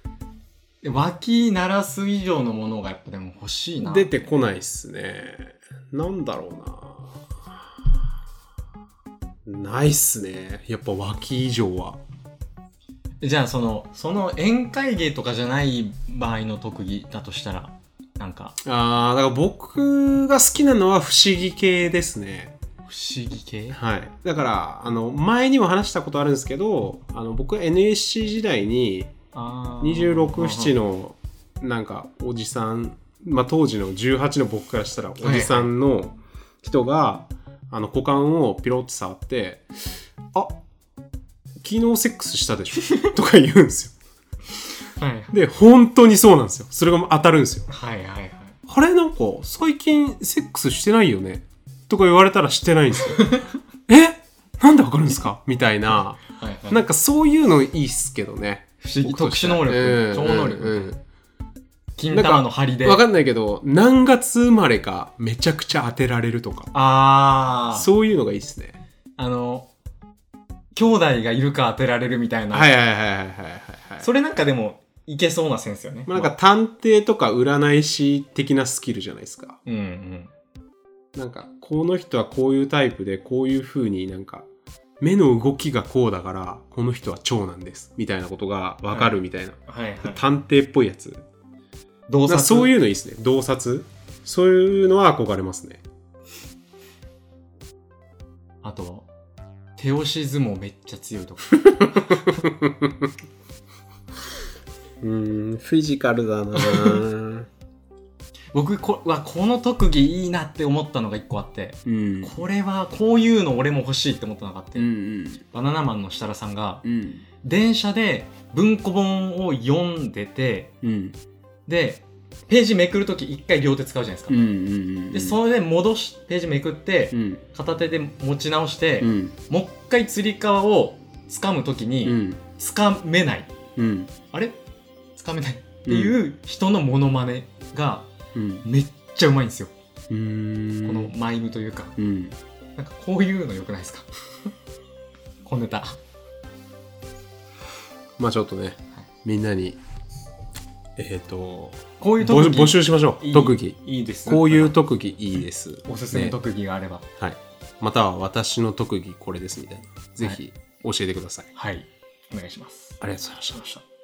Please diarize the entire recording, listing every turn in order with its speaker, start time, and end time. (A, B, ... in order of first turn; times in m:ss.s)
0:00.8-0:04.3 A
0:03.8-0:07.1 B
0:09.4-0:12.0 B
0:13.2-0:18.6 A
0:18.6-0:22.5 B
0:22.9-0:23.8 A
0:23.7-0:29.1 B
0:29.3-0:30.7 A
0:29.8-0:39.7 B
0:35.2-0:35.7 A
0:41.6-0:43.9 B
0:45.0-0:45.3 A
0:45.3-0:47.7 B
0:47.7-0:48.6 A
0:48.7-0:53.3 B
0:53.1-0:53.5 A
0:53.9-1:01.0 B
0:56.3-0:56.8 A
0:58.8-1:00.9 A
1:02.0-1:03.0 A
1:02.1-1:06.7 B
1:06.7-1:07.9 A
1:07.7-1:08.8 B
1:09.2-1:09.7 A
1:10.7-1:12.7 A
1:12.5-1:14.1 B
1:14.0-1:16.3 A
1:16.1-1:19.6 B
1:19.6-1:20.3 A
1:21.1-1:24.4 B
1:25.0-1:31.2 B
1:28.9-1:30.2 A
1:32.1-1:32.7 A
1:32.2-1:35.8 B
1:38.6-1:39.1 A
1:39.8-1:42.4 A
1:41.8-1:43.1 B
1:45.0-1:47.5 B
1:46.6-1:47.0 A
1:48.5-1:54.9 A
1:51.8-1:52.3 B
1:54.8-1:55.4 B
1:55.5-1:56.8 A
1:56.8-1:57.2 B
1:57.4-2:00.8 A
2:00.8-2:01.2 B
2:01.7-2:04.4 A
2:04.3-2:05.4 B
2:05.1-2:13.5 A
2:07.1-2:07.4 B
2:09.0-2:09.4 B
2:12.0-2:12.4 B
2:13.8-2:14.1 B
2:14.3-2:14.6 A
2:15.2-2:18.1 A
2:15.9-2:16.2 B
2:18.3-2:18.6 B
2:18.6-2:19.7 A
2:20.1-2:21.1 B
2:20.8-2:21.9 A
2:22.0-2:22.4 B
2:22.8-2:24.1 A
2:25.4-2:26.0 A
2:28.2-2:29.8 B
2:31.0-2:36.4 B
2:32.0-2:34.8 A
2:35.8-2:37.0 A
2:37.2-2:41.5 B
2:41.5-2:43.0 A
2:43.0-2:43.8 B